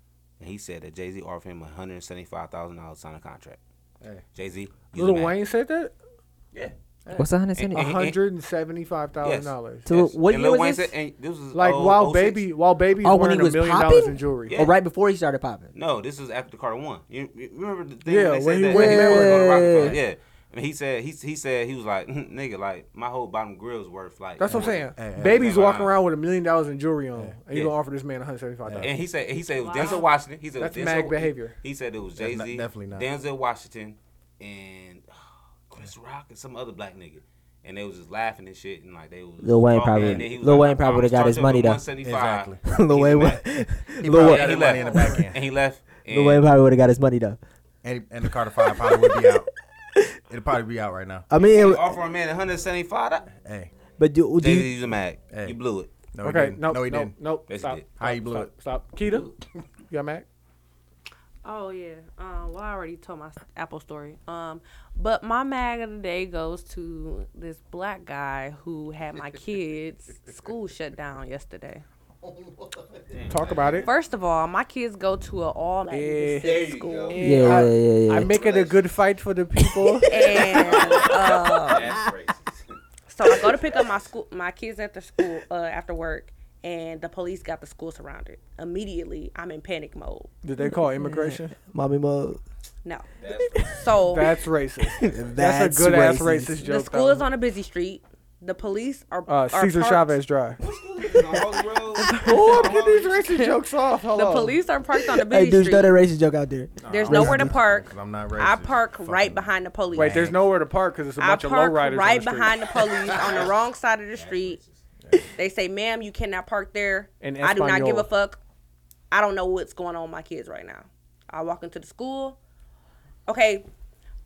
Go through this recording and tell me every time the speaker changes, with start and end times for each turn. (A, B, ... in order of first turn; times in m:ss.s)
0:00.4-0:03.6 A
0:04.3-0:05.4 A
0:04.9-0:05.9 B
0:07.2-0:07.9 C
0:07.5-0:08.2 A
0:07.7-0:09.9 B
0:09.2-0:12.5 A
0:09.8-0:10.9 C
0:11.5-0:14.6 B
0:13.0-0:15.7 C
0:14.5-0:14.8 A
0:15.7-0:25.9 A
0:18.1-0:19.7 B
0:18.7-0:20.0 C
0:24.4-0:28.9 B
0:24.5-0:25.8 D
0:28.6-0:28.9 D
0:28.8-0:35.1 A
0:29.6-0:30.1 E
0:30.6-0:31.6 B
0:32.2-0:33.1 D
0:35.7-0:43.4 A
0:39.4-0:41.8 C
0:39.9-0:40.4 D
0:42.0-0:42.8 D
0:42.6-0:45.3 C
0:44.0-0:45.4 D
0:44.0-0:46.5 A
0:46.1-0:47.4 C
0:47.8-0:49.5 D
0:48.3-0:50.2 C
0:50.3-0:51.3 D
0:51.3-0:52.0 C
0:51.4-0:53.3 A
0:53.3-0:53.7 D
0:54.0-0:54.8 C
0:54.4-0:55.9 A
0:55.3-0:55.6 D
0:56.1-0:57.2 D
0:56.2-0:59.3 B
0:57.5-0:57.9 A
0:58.0-0:58.5 D
0:59.9-1:00.3 B
1:01.4-1:11.8 E
1:12.2-1:12.8 D
1:13.1-1:13.9 A
1:13.3-1:13.9 B
1:13.8-1:17.7 E
1:15.9-1:20.5 B
1:16.4-1:18.9 A
1:17.2-1:18.3 C
1:20.1-1:22.0 E
1:20.4-1:22.8 A
1:23.1-1:30.3 E
1:30.4-1:31.6 B
1:30.6-1:32.4 C
1:33.2-1:33.9 A
1:33.3-1:33.9 C
1:33.6-1:34.4 E
1:34.0-1:37.3 B
1:34.8-1:36.6 C
1:36.6-1:40.2 E
1:39.3-1:40.6 B
1:40.6-1:43.2 A
1:42.0-1:42.7 E
1:42.2-1:44.6 B
1:44.1-1:46.0 E
1:44.9-1:47.6 C
1:46.8-1:50.4 D
1:46.9-1:50.3 E
1:49.9-1:52.8 B
1:51.2-1:54.6 E
1:53.2-1:53.5 A
1:54.1-1:54.8 A
1:55.0-1:55.3 D
1:55.4-1:58.4 E
1:57.2-1:58.1 B
1:59.1-2:02.4 E
2:03.3-2:03.6 E